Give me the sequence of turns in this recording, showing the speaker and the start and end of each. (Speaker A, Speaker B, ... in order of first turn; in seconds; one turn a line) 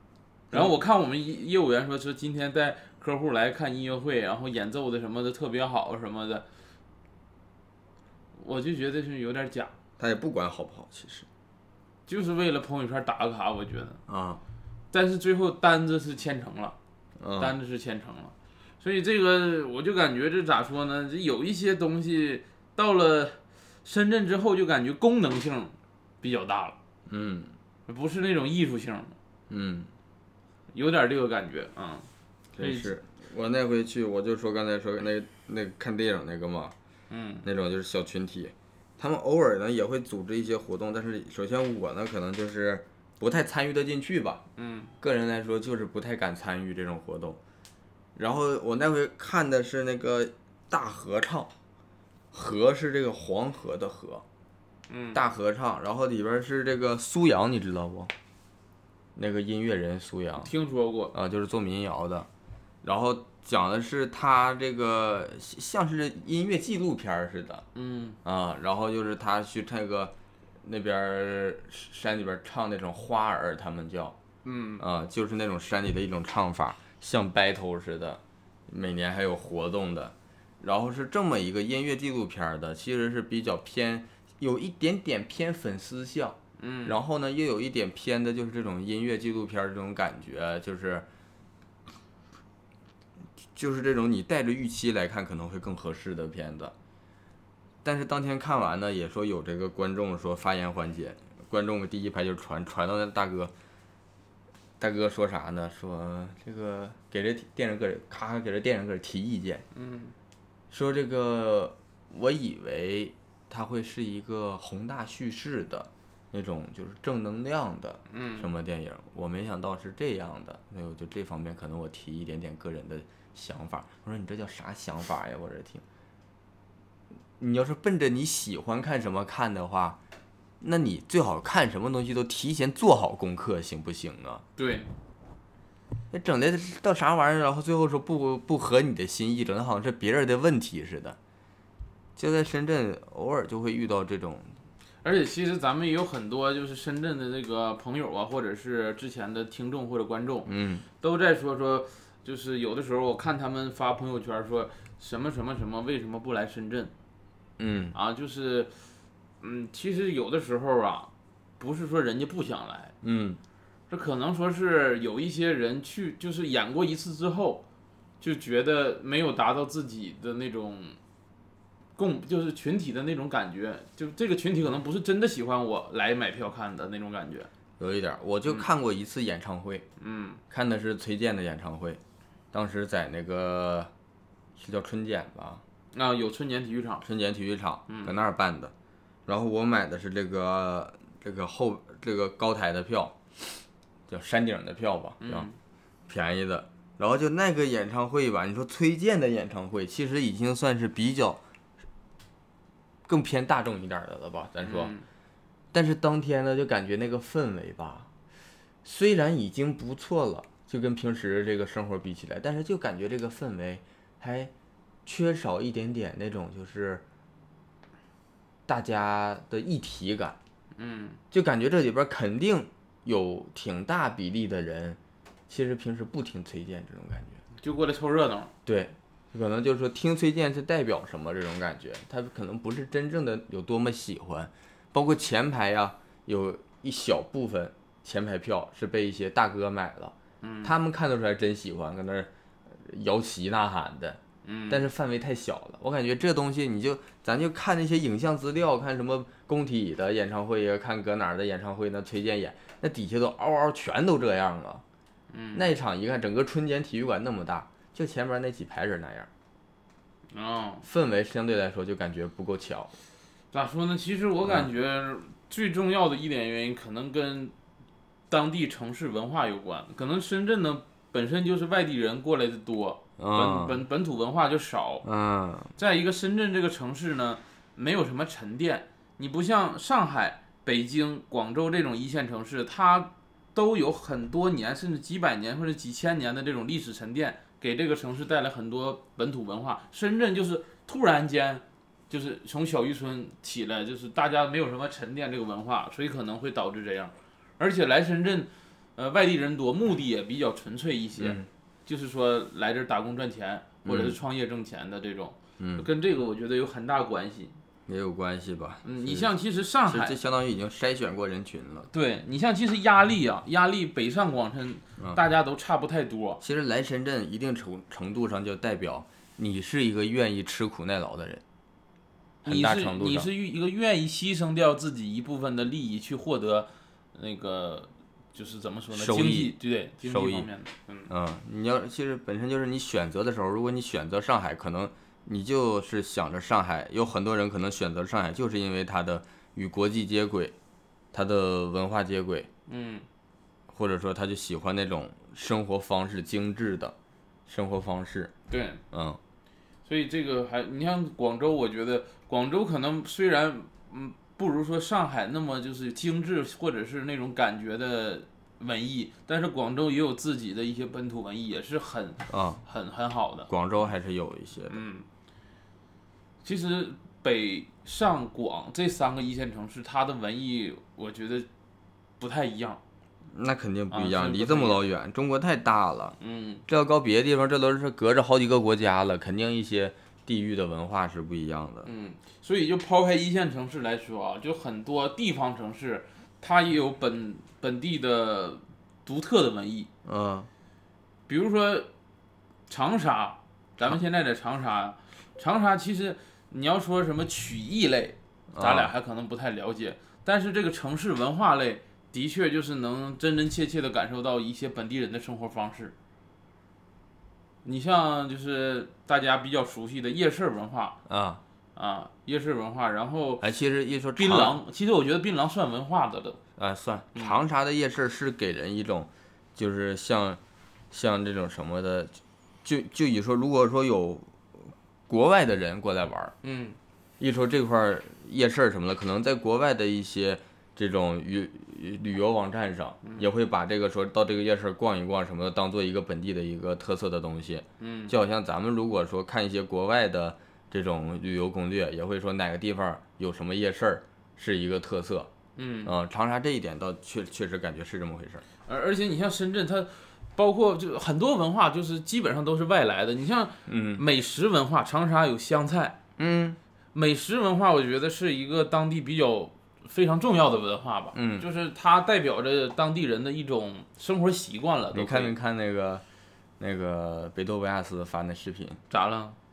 Speaker A: 0.5-6.4
Speaker A: 8.3-9.7
Speaker B: 10.0-11.2
Speaker A: 12.1-14.0
Speaker B: 14.1-14.4
Speaker A: 14.9-16.8
Speaker B: 17.2-17.6
Speaker A: 17.4-26.8
Speaker B: 27.1-27.5
Speaker A: 27.9-29.1
Speaker B: 29.5-29.9
Speaker A: 30.7-32.1
Speaker B: 32.5-36.7
Speaker A: 32.6-32.9
Speaker A: 37.1-37.5
Speaker B: 37.4-44.4
Speaker A: 44.6-44.9
Speaker B: 45.0-47.4
Speaker B: 48.1-51.5
Speaker B: 52.3-54.2
Speaker A: 54.9-55.2
Speaker B: 55.1-58.1
Speaker B: 59.1-60.5
Speaker A: 60.4-61.1
Speaker B: 61.1-62.3
Speaker B: 62.8-67.6
Speaker A: 67.7-68.2
Speaker B: 68.2-74.2
Speaker A: 74.4-74.8
Speaker B: 74.8-91.1
Speaker A: 86.6-87.0
Speaker B: 93.5-96.7
Speaker B: 97.8-103.5
Speaker B: 104.8-109.6
Speaker A: 109.7-110.1
Speaker B: 110.7-125.8
Speaker A: 118.1-118.5
Speaker B: 127.4-130.0
Speaker B: 130.6-134.4
Speaker A: 134.6-134.9
Speaker B: 136.1-141.2
Speaker B: 142.2-144.5
Speaker A: 145.0-150.5
Speaker B: 150.4-150.8
Speaker A: 151.0-156.9
Speaker B: 157.6-157.9
Speaker A: 157.9-158.7
Speaker A: 159.4-162.9
Speaker B: 163.0-163.4
Speaker A: 163.9-167.6
Speaker A: 168.2-171.0
Speaker A: 171.9-177.5
Speaker B: 177.8-179.8
Speaker A: 180.0-180.4
Speaker B: 180.5-182.0
Speaker B: 182.5-183.9
Speaker B: 184.6-185.6
Speaker A: 185.9-187.1
Speaker B: 187.0-188.7
Speaker B: 189.3-193.2
Speaker B: 194.1-195.5
Speaker A: 195.2-195.6
Speaker B: 196.1-201.4
Speaker B: 203.1-204.9
Speaker A: 204.6-205.0
Speaker B: 205.7-208.1
Speaker B: 208.8-214.5
Speaker B: 215.0-217.0
Speaker B: 218.7-220.4
Speaker A: 220.8-221.2
Speaker B: 221.3-227.4
Speaker A: 227.6-228.5
Speaker B: 228.6-254.8
Speaker A: 240.4-240.7
Speaker A: 244.4-244.9
Speaker A: 255.3-255.7
Speaker B: 255.5-259.3
Speaker A: 260.3-260.9
Speaker B: 260.8-262.9
Speaker A: 263.5-267.5
Speaker A: 268.3-275.0
Speaker B: 273.2-273.8
Speaker B: 275.0-275.7
Speaker A: 275.8-307.5
Speaker B: 301.2-301.5
Speaker B: 303.9-304.2
Speaker B: 305.6-305.9
Speaker B: 307.9-309.3
Speaker A: 308.9-310.1
Speaker B: 309.9-311.9
Speaker A: 311.9-316.4
Speaker B: 316.4-321.4
Speaker A: 322.4-331.1
Speaker B: 322.4-323.3
Speaker B: 328.9-330.5
Speaker B: 331.1-340.5
Speaker B: 341.1-342.5
Speaker A: 342.7-343.1
Speaker B: 343.7-346.9
Speaker B: 347.5-348.3
Speaker A: 348.5-348.8
Speaker B: 348.9-349.2
Speaker A: 349.9-363.5
Speaker B: 362.3-362.6
Speaker B: 363.5-364.8
Speaker A: 364.7-365.1
Speaker A: 366.4-371.5
Speaker A: 372.2-372.8
Speaker B: 373.3-376.1
Speaker A: 373.9-374.8
Speaker A: 376.2-376.6
Speaker B: 376.7-381.9
Speaker A: 381.9-389.9
Speaker B: 390.0-390.5
Speaker A: 391.3-391.9
Speaker A: 392.7-405.9
Speaker B: 398.5-398.9
Speaker A: 407.6-411.0
Speaker B: 411.1-411.4
Speaker A: 411.7-413.4
Speaker B: 413.4-414.6
Speaker A: 414.1-416.4
Speaker B: 416.6-420.4
Speaker B: 420.9-426.4
Speaker A: 426.4-426.8
Speaker B: 427.2-445.3
Speaker A: 437.8-438.1
Speaker A: 445.6-445.9
Speaker B: 445.9-448.4
Speaker A: 448.6-456.0
Speaker B: 453.7-454.0
Speaker B: 456.2-456.6
Speaker A: 456.9-465.3
Speaker B: 461.1-461.4
Speaker B: 464.9-466.0
Speaker B: 466.6-468.8
Speaker A: 468.9-469.4